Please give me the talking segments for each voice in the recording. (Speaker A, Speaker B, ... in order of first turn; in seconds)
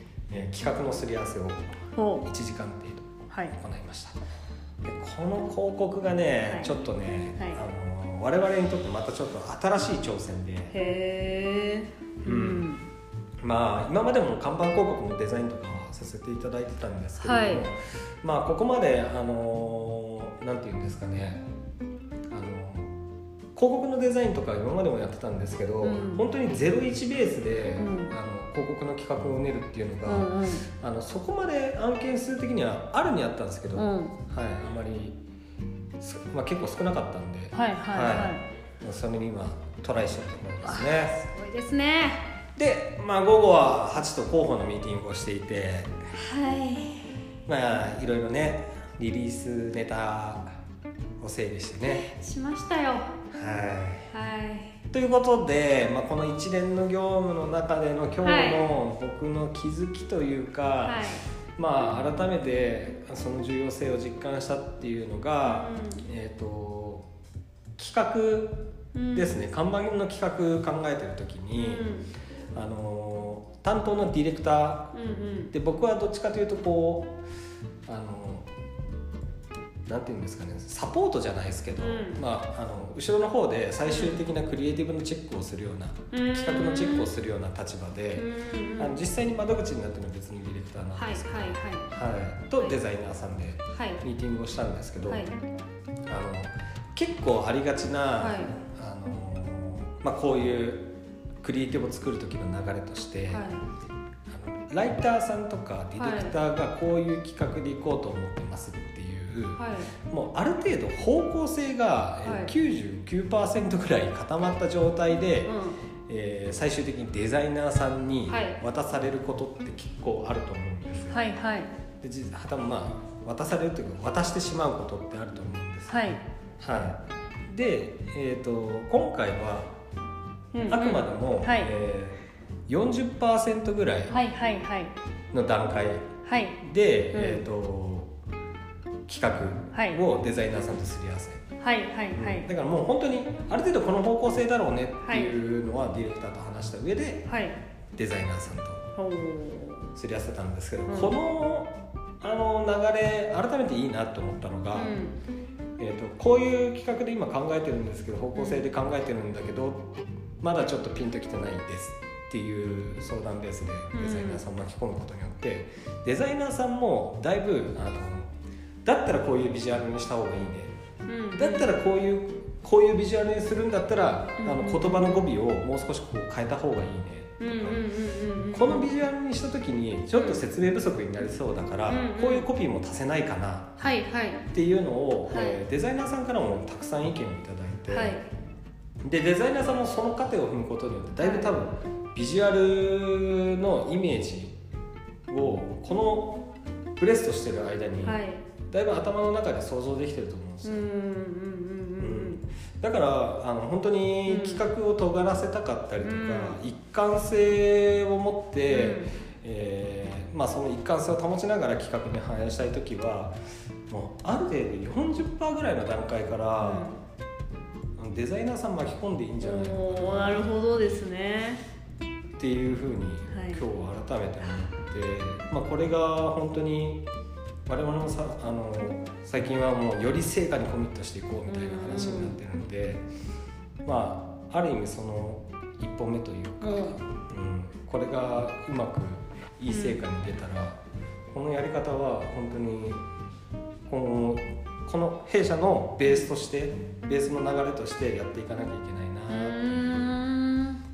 Speaker A: 0.3-4.2, 4.8-10.8, 12.2-12.7, 13.4-21.4, 22.3-22.9, 23.5-35.2, 36.0-41.2, 42.6-45.9, 47.5-50.5, 51.2-52.1, 53.3-54.1, 54.9-67.1, 67.8-68.6, 69.1-71.8, 72.5-74.9, 75.5-77.1, 77.9-78.5, 79.9-88.2, 88.8-95.3, 96.1-100.9, 101.4-103.5, 104.3-115.5, 116.1-121.3, 122.0-126.0, 126.6-129.7, 130.7-134.2, 135.3-136.0, 136.6-138.1, 139.1-141.4, 142.1-147.3, 148.0-148.9, 150.0-155.0, 155.8-168.3, 168.8-170.7, 171.3-177.9, 178.5-183.7, 184.5-188.2, 189.0-194.6, 195.3-200.8, 202.0-213.3, 213.9-216.9, 218.0-220.5, 222.4-227.0, 227.7-233.0, 233.8-240.8, 241.3-243.0, 243.9-249.9
Speaker B: 1.9-2.3, 3.3-3.6, 6.5-6.8, 7.4-7.6, 10.7-12.9, 17.2-17.7, 25.8-26.3, 27.8-28.2, 30.1-30.7, 33.8-34.2, 37.5-38.4, 40.6-42.2, 46.1-47.2, 51.9-53.1, 54.1-54.8, 58.2-58.7, 60.8-61.2, 65.4-66.0, 68.9-69.4, 71.6-72.1, 74.9-75.5, 81.8-82.2, 83.8-84.2, 86.1-87.1, 88.1-89.0, 90.9-91.9, 93.7-94.0, 95.1-95.3, 98.2-98.5, 103.3-103.6, 106.0-106.3, 109.5-109.9, 112.2-112.5, 115.4-115.8, 118.3-118.6, 121.1-121.7, 125.9-126.2, 130.5-131.7, 134.1-134.9, 136.2-136.6, 137.1-137.4, 139.7-140.0, 141.6-142.5, 145.0-145.4, 147.3-147.6, 148.9-149.9, 150.9-151.2, 154.7-155.2, 158.3-158.6, 163.9-164.4, 171.1-171.7, 174.4-175.3, 177.4-178.9, 180.1-180.4, 181.9-182.5, 183.8-184.5, 185.3-185.6, 187.9-188.3, 191.2-191.6, 198.0-198.5, 200.6-202.4, 204.3-204.7, 206.0-206.6, 208.7-209.1, 216.6-217.0, 219.4-221.6, 223.3-223.6, 231.5-232.4, 236.6-237.0, 239.7-240.0, 249.3-250.8